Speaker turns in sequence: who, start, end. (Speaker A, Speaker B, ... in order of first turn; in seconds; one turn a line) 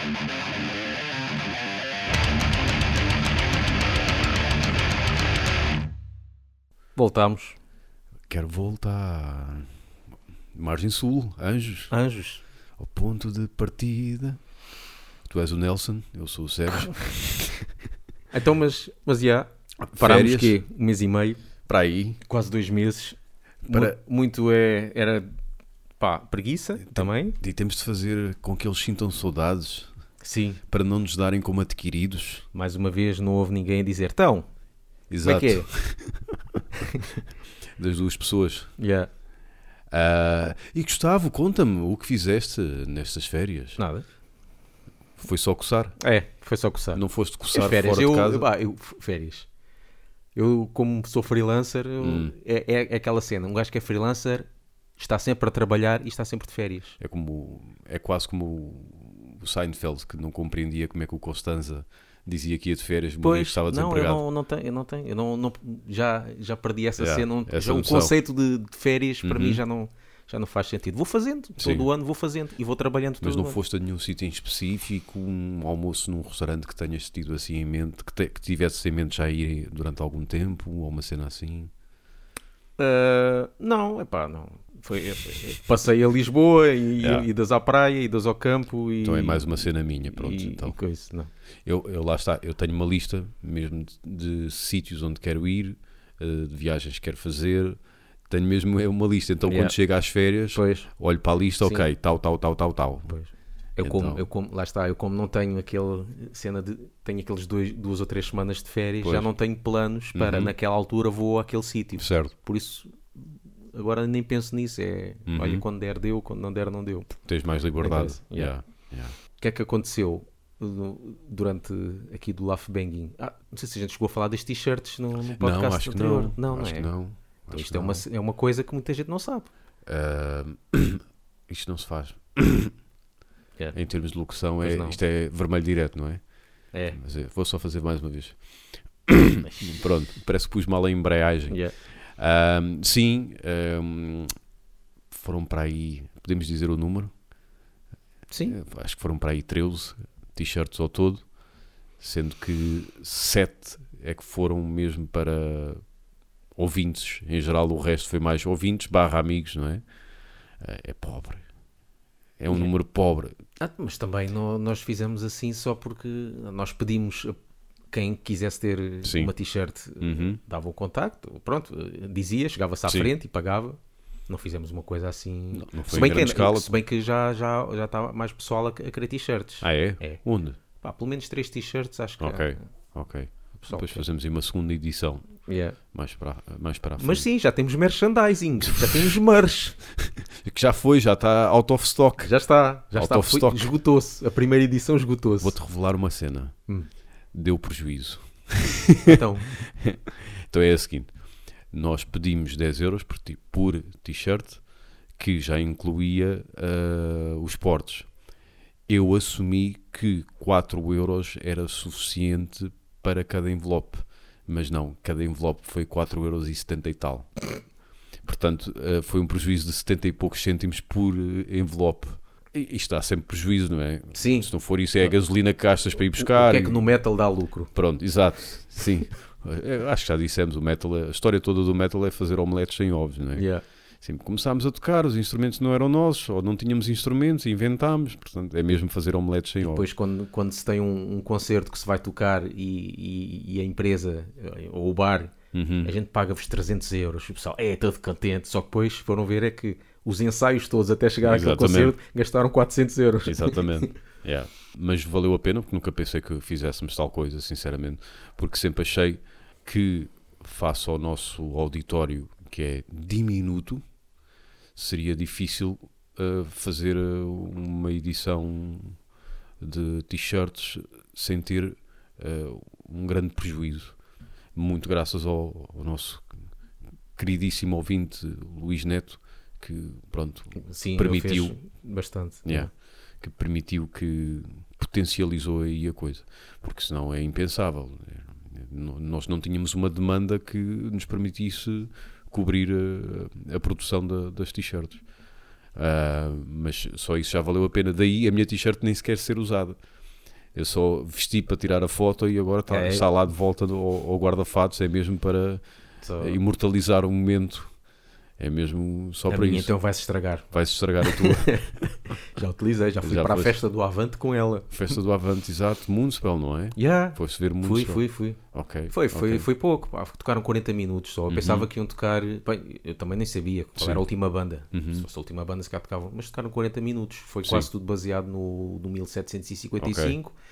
Speaker A: 7.0-7.6
Speaker B: 8.3-9.7
Speaker B: 10.6-11.9
Speaker A: 11.9-12.4
Speaker B: 12.8-14.4
Speaker B: 15.2-17.6
Speaker A: 18.3-21.4
Speaker B: 19.8-20.6
Speaker B: 21.7-22.2
Speaker A: 22.2-25.3
Speaker B: 23.6-23.9
Speaker A: 26.0-27.4
Speaker B: 26.8-29.9
Speaker A: 30.2-30.6
Speaker B: 30.7-32.5
Speaker A: 32.5-34.5
Speaker B: 35.1-36.6
Speaker A: 35.2-35.7
Speaker B: 37.8-38.7
Speaker A: 38.8-39.1
Speaker B: 39.9-43.8
Speaker A: 43.8-44.0
Speaker B: 45.2-46.0
Speaker A: 46.0-49.5
Speaker B: 46.9-48.5
Speaker A: 50.3-57.0
Speaker B: 52.0-52.3
Speaker B: 57.0-64.2
Speaker A: 63.2-73.6
Speaker B: 67.0-68.1
Speaker B: 69.2-69.6
Speaker B: 71.6-71.9
Speaker B: 73.2-81.7
Speaker A: 82.8-91.3
Speaker B: 87.0-87.3
Speaker B: 89.0-90.8
Speaker B: 91.7-97.8
Speaker B: 98.3-103.2
Speaker A: 99.5-99.8
Speaker A: 100.5-100.9
Speaker A: 101.6-101.9
Speaker A: 103.1-117.2
Speaker B: 103.8-104.2
Speaker B: 109.0-109.3
Speaker B: 110.2-110.5
Speaker B: 112.0-112.3
Speaker B: 115.3-115.6
Speaker B: 117.2-119.2
Speaker A: 117.8-118.5
Speaker A: 119.4-126.9
Speaker B: 125.3-128.1
Speaker A: 127.5-129.5
Speaker B: 129.9-132.8
Speaker B: 133.7-136.3
Speaker A: 134.4-135.0
Speaker A: 136.7-137.0
Speaker B: 136.9-144.3
Speaker A: 139.4-139.8
Speaker A: 141.5-141.8
Speaker B: 145.1-147.1
Speaker A: 148.3-148.6
Speaker B: 148.5-151.3
Speaker B: 152.0-155.8
Speaker B: 156.6-159.8
Speaker B: 160.6-161.4
Speaker B: 162.4-163.3
Speaker A: 163.6-167.3
Speaker A: 167.9-180.2
Speaker B: 169.0-169.3
Speaker B: 170.0-170.4
Speaker B: 175.5-176.7
Speaker B: 179.6-180.6
Speaker A: 180.8-182.6
Speaker B: 182.2-185.4
Speaker A: 183.6-184.1
Speaker A: 185.5-185.8
Speaker B: 185.9-187.2
Speaker A: 187.0-189.8
Speaker B: 188.7-188.9
Speaker B: 190.3-192.3
Speaker A: 192.2-195.6
Speaker B: 192.9-193.7
Speaker B: 195.4-196.6
Speaker B: 197.3-199.2
Speaker A: 199.1-199.6
Speaker B: 199.8-201.2
Speaker B: 201.7-204.6
Speaker B: 205.2-208.1
Speaker B: 208.9-217.4
Speaker B: 218.2-226.8
Speaker A: 224.1-225.2
Speaker A: 226.1-227.7
Speaker B: 227.7-233.5
Speaker A: 233.3-233.6
Speaker B: 234.0-239.9
Speaker A: 239.6-253.9
Speaker B: 245.5-245.9
Speaker B: 251.2-252.0
Speaker B: 253.2-263.8
Speaker B: 264.8-269.0
Speaker B: 269.6-274.0
Speaker B: 274.5-276.3
Speaker B: 277.1-281.6
Speaker A: 280.6-282.7
Speaker B: 282.4-295.0
Speaker B: 295.8-299.8
Speaker B: 300.5-305.6
Speaker A: 302.7-303.1
Speaker A: 306.0-306.4
Speaker B: 306.2-307.7
Speaker B: 308.4-309.7
Speaker A: 309.3-310.5
Speaker B: 310.5-311.7
Speaker A: 311.0-314.9
Speaker B: 313.0-313.6
Speaker B: 314.7-319.5
Speaker A: 316.8-330.3
Speaker B: 321.3-321.7
Speaker B: 323.8-324.0
Speaker B: 324.7-325.1
Speaker B: 327.4-327.7
Speaker B: 329.8-330.2